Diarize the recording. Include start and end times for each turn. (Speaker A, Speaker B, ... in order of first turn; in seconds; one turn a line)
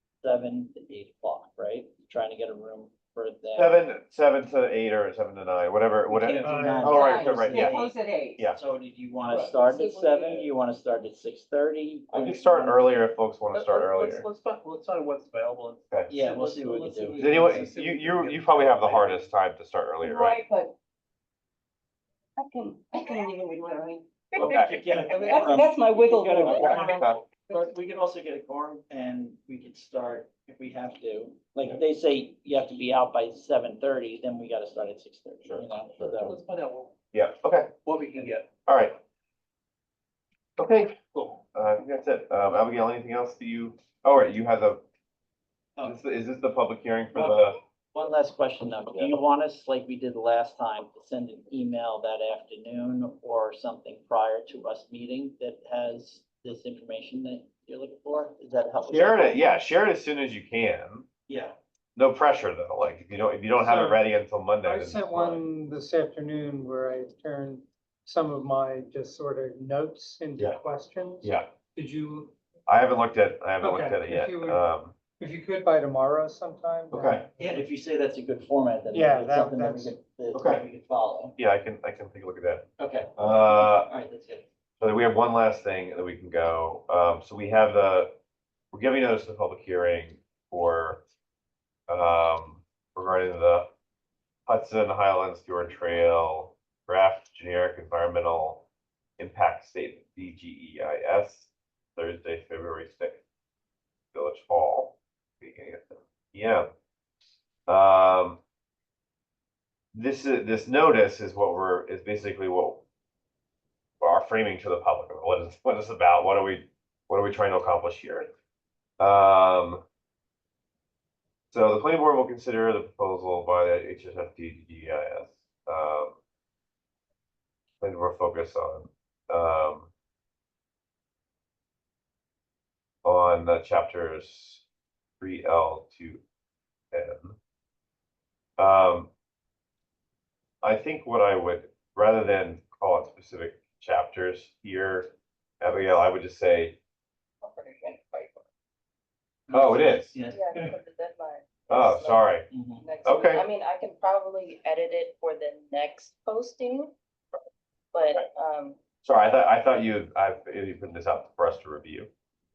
Speaker A: 0.2-3.7
Speaker B: 3.5-7.8
Speaker A: 6.1-7.9
Speaker C: 6.3-6.7
Speaker D: 6.4-6.9
Speaker E: 6.9-8.5
Speaker A: 8.5-12.8
Speaker C: 9.2-10.5
Speaker B: 12.1-14.2
Speaker C: 13.5-19.3
Speaker A: 16.1-17.6
Speaker B: 17.2-20.4
Speaker E: 20.0-20.7
Speaker E: 22.4-24.5
Speaker B: 24.4-24.9
Speaker A: 24.4-36.3
Speaker C: 24.9-25.6
Speaker E: 25.3-26.8
Speaker C: 26.4-27.0
Speaker B: 26.5-27.2
Speaker B: 35.5-36.2
Speaker C: 36.2-36.9
Speaker B: 37.1-37.7
Speaker C: 37.9-38.5
Speaker B: 38.6-39.0
Speaker B: 40.6-41.0
Speaker B: 41.5-44.8
Speaker B: 45.8-47.6
Speaker A: 47.9-59.4
Speaker B: 58.9-61.1
Speaker A: 61.3-61.5
Speaker B: 62.0-65.4
Speaker D: 63.6-64.0
Speaker D: 64.6-72.3
Speaker B: 71.2-71.5
Speaker B: 72.7-74.9
Speaker D: 73.6-74.6
Speaker D: 75.2-77.6
Speaker B: 76.9-77.2
Speaker A: 77.4-81.3
Speaker D: 78.9-80.0
Speaker B: 80.3-80.6
Speaker B: 81.4-83.9
Speaker A: 82.8-84.5
Speaker B: 84.8-88.1
Speaker B: 88.7-91.0
Speaker B: 91.9-93.7
Speaker B: 94.5-98.7
Speaker B: 99.2-103.2
Speaker B: 104.1-106.7
Speaker B: 107.7-108.4
Speaker B: 109.9-112.8
Speaker B: 114.0-118.3
Speaker B: 119.0-119.8
Speaker B: 121.5-126.2
Speaker B: 127.8-129.9
Speaker B: 133.0-134.6
Speaker B: 135.2-136.2
Speaker B: 136.9-137.4
Speaker B: 138.6-139.1
Speaker B: 140.6-145.1
Speaker B: 145.6-146.8
Speaker F: 147.4-148.4
Speaker B: 149.5-150.2
Speaker A: 149.5-150.4
Speaker F: 150.3-152.2
Speaker B: 151.7-152.5
Speaker A: 152.5-152.9
Speaker F: 152.8-156.9
Speaker B: 153.0-153.4
Speaker F: 157.9-158.8
Speaker B: 159.0-162.1